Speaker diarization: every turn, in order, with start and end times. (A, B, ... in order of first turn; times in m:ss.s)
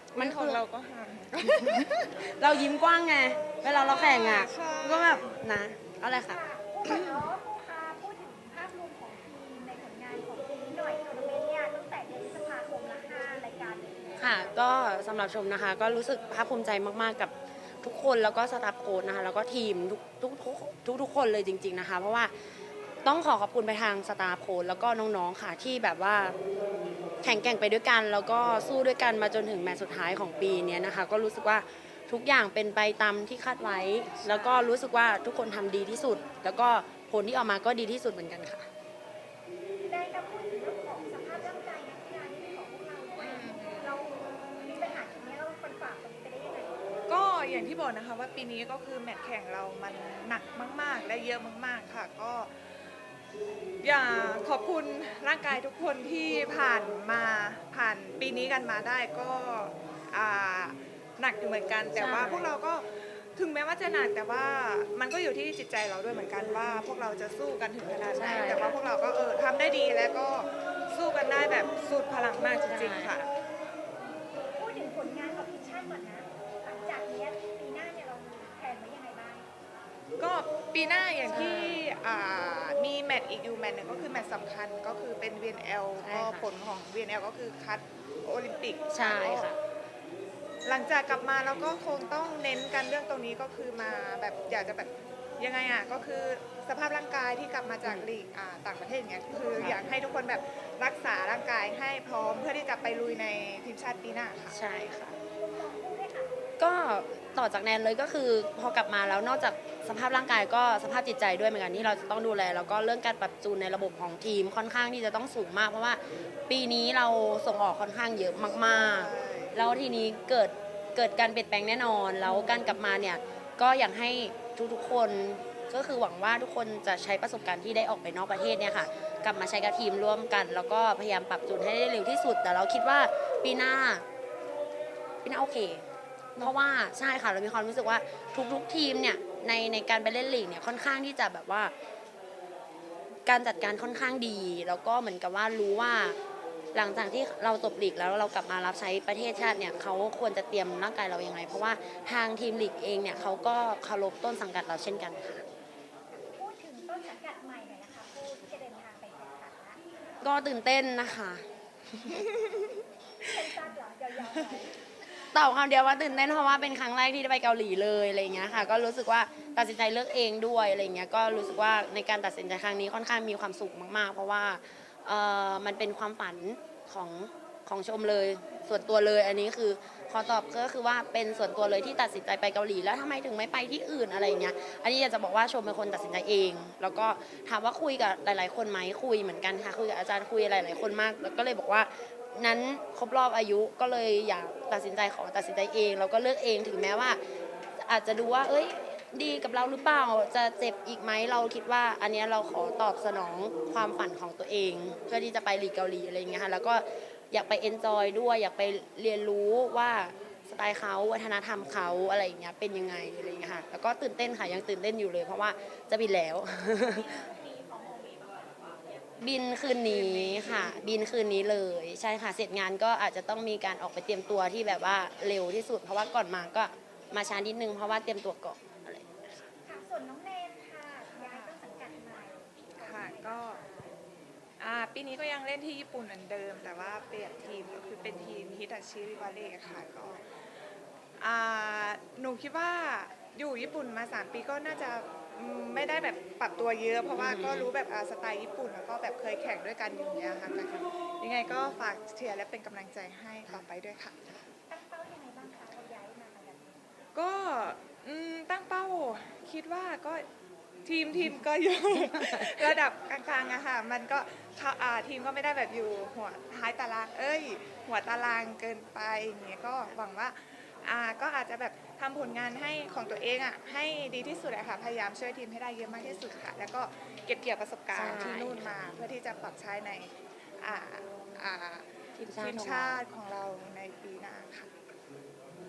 0:00.1-0:00.6 A
0:00.1-0:01.9 B
0:01.5-0:07.2 A
0:03.6-0:05.3 B
0:06.3-0:14.6 C
0:14.2-0:22.3 A
0:23.0-0:26.3 A
0:27.2-0:38.7 A
0:34.2-0:34.7 B
0:39.8-0:46.8 C
0:43.2-0:44.0 B
0:47.1-0:52.5 B
0:53.8-1:13.3 B
1:02.0-1:02.5 A
1:08.1-1:08.8 A
1:12.7-1:13.1 A
1:14.5-1:19.4 C
1:20.2-1:29.5 B
1:21.3-1:21.8 A
1:26.0-1:26.5 A
1:28.9-1:29.6 A
1:30.6-1:44.6 B
1:39.6-1:39.8 A
1:44.5-1:45.2 A
1:45.2-1:46.3 C
1:46.6-2:14.0 A
1:58.6-1:59.6 B
2:15.2-2:15.8 A
2:16.4-2:21.7 A
2:23.2-2:26.2 A
2:26.7-2:35.4 A
2:36.2-2:39.8 C
2:40.2-2:41.4 A
2:43.3-2:44.7 C
2:45.3-3:17.2 A
3:17.8-3:37.1 A
3:36.8-3:38.4 C
3:39.2-3:49.4 A
3:39.9-3:40.8 B
3:49.6-3:53.9 C
3:51.1-3:51.5 B
3:52.8-3:53.6 B
3:54.6-4:00.2 B
4:01.2-4:14.2 B
4:07.1-4:07.7 A
4:14.7-4:16.6 C
4:17.1-4:20.2 B
4:20.8-4:44.7 B
4:21.9-4:22.7 A
4:37.9-4:38.8 A
4:42.2-4:43.0 A